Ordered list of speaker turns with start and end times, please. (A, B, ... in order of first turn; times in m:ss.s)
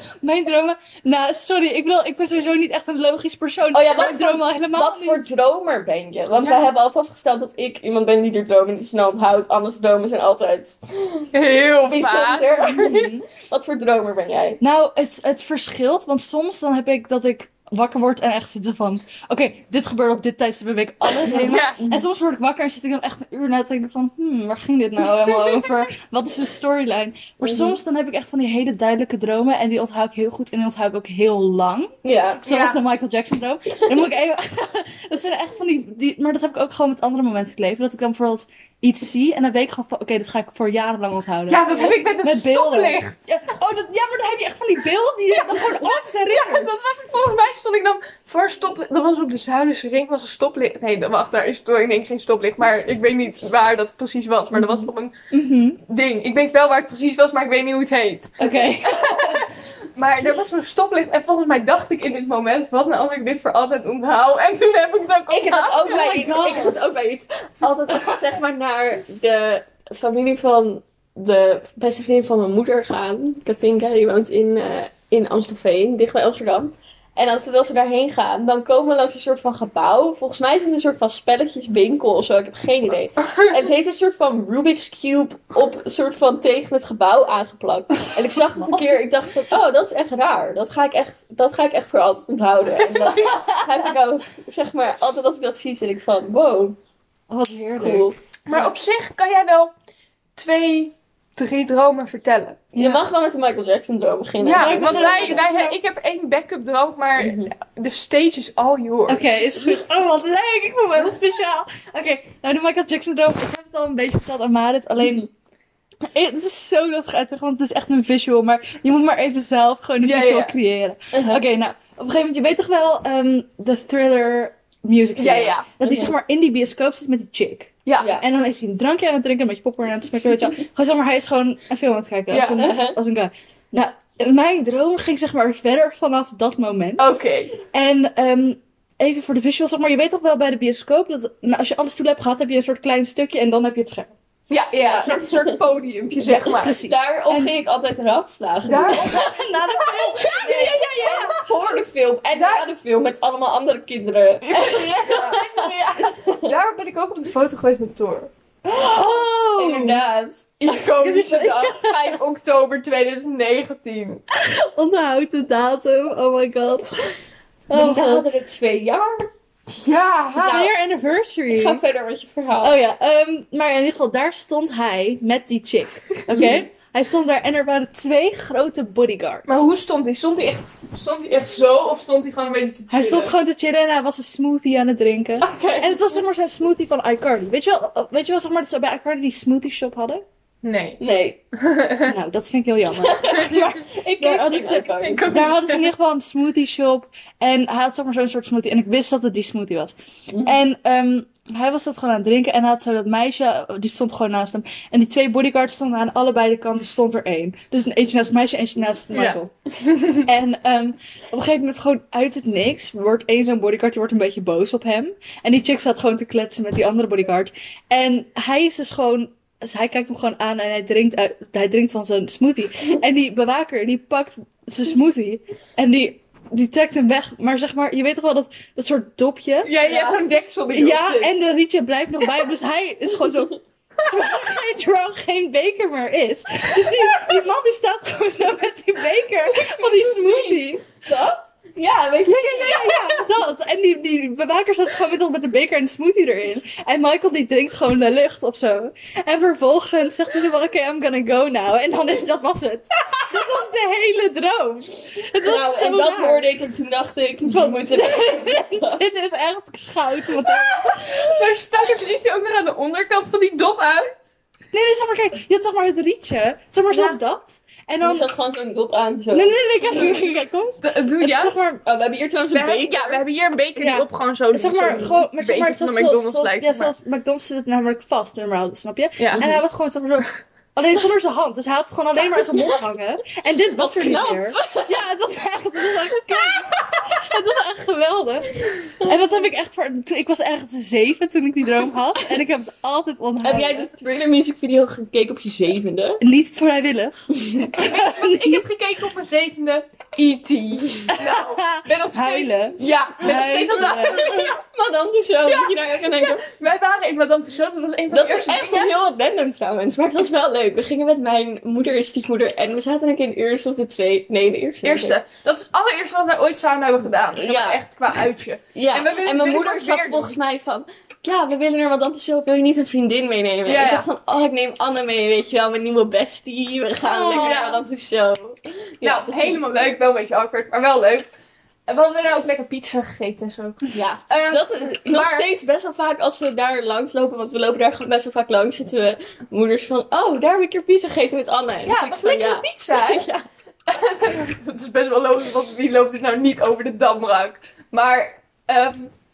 0:00.2-0:05.3 A
0:03.7-0:11.3 B
0:06.4-0:06.7 A
0:11.3-0:12.8 C
0:11.8-0:14.6 B
0:12.7-0:13.2 A
0:14.6-0:46.8 A
0:21.2-0:22.0 B
0:21.3-0:21.8 C
0:27.4-0:27.8 B
0:32.0-0:32.4 B
0:32.4-0:32.8 C
0:41.5-0:43.1 C
0:45.3-0:55.1 C
0:54.5-0:55.8 A
0:55.9-1:05.9 C
0:58.4-0:59.4 A
1:05.3-1:36.8 B
1:05.8-1:07.0 A
1:23.2-1:23.5 C
1:28.6-1:28.9 A
1:33.2-1:33.6 A
1:37.3-1:38.7 A
1:37.8-1:38.2 B
1:38.5-1:39.7 C
1:40.4-1:42.7 C
1:42.7-1:45.5 B
1:42.8-1:43.0 A
1:44.4-1:49.2 C
1:44.5-1:45.7 A
1:47.2-1:47.5 B
1:49.1-1:55.3 A
1:56.1-2:17.1 A
2:00.0-2:00.5 C
2:01.1-2:01.4 B
2:05.2-2:05.7 C
2:05.8-2:06.1 B
2:07.8-2:08.1 C
2:08.0-2:08.2 B
2:12.3-2:12.7 C
2:12.5-2:13.0 B
2:17.0-2:17.5 C
2:17.7-2:24.1 A
2:24.5-2:26.8 C
2:24.8-2:25.6 B
2:26.2-2:27.5 A
2:26.8-2:29.4 B
2:28.6-2:29.4 C
2:28.9-2:31.4 A
2:30.2-2:36.5 B
2:32.3-2:32.6 C
2:34.4-2:35.8 A
2:34.5-2:38.3 C
2:38.7-2:40.0 A
2:38.9-2:40.8 B
2:40.6-2:44.2 C
2:41.0-2:42.2 A
2:44.4-2:46.9 A
2:47.7-2:48.3 A
2:47.7-2:49.3 B
2:49.7-2:50.7 C
2:50.4-2:51.8 A
2:50.4-2:50.7 B
2:51.5-2:52.8 B
2:52.6-2:59.6 A
2:56.3-2:56.6 B
2:59.4-3:03.3 C
3:02.9-3:10.2 A
3:05.4-3:06.0 C
3:10.6-3:11.0 C
3:11.0-3:11.4 B
3:11.5-3:12.1 C
3:12.0-3:29.5 A
3:13.0-3:15.6 B
3:15.0-3:15.8 C
3:20.3-3:20.6 B
3:29.1-3:30.3 C
3:30.1-3:53.6 A
3:49.6-3:51.3 C
3:54.1-4:00.8 A
3:59.5-4:00.7 C
4:01.7-4:03.2 B
4:02.2-4:16.4 A
4:15.4-4:19.0 B
4:17.4-4:21.0 A
4:21.2-4:24.2 C
4:24.7-4:28.3 A
4:26.9-4:27.2 C
4:28.0-4:30.1 B
4:29.3-4:31.8 A
4:30.8-4:31.6 C
4:31.8-4:33.2 B
4:32.5-4:36.9 C
4:33.8-4:53.9 A
4:39.2-4:39.4 C
4:39.3-4:39.6 B
4:43.7-4:45.0 B
4:46.3-4:46.6 B
4:48.8-4:49.2 B
4:53.4-4:56.2 B
4:56.2-4:58.6 A
4:57.7-5:04.5 C
5:01.1-5:04.4 A
5:03.7-5:06.4 B
5:05.5-5:08.9 C
5:08.1-5:15.2 B
5:14.8-5:20.4 C
5:17.4-5:17.8 B
5:18.7-5:29.7 B
5:23.6-5:24.1 C
5:27.1-5:27.6 A
5:27.1-5:27.8 C
5:29.0-5:31.2 C
5:31.9-5:35.5 C
5:33.9-5:43.4 B
5:41.8-5:43.3 C
5:43.9-5:49.1 C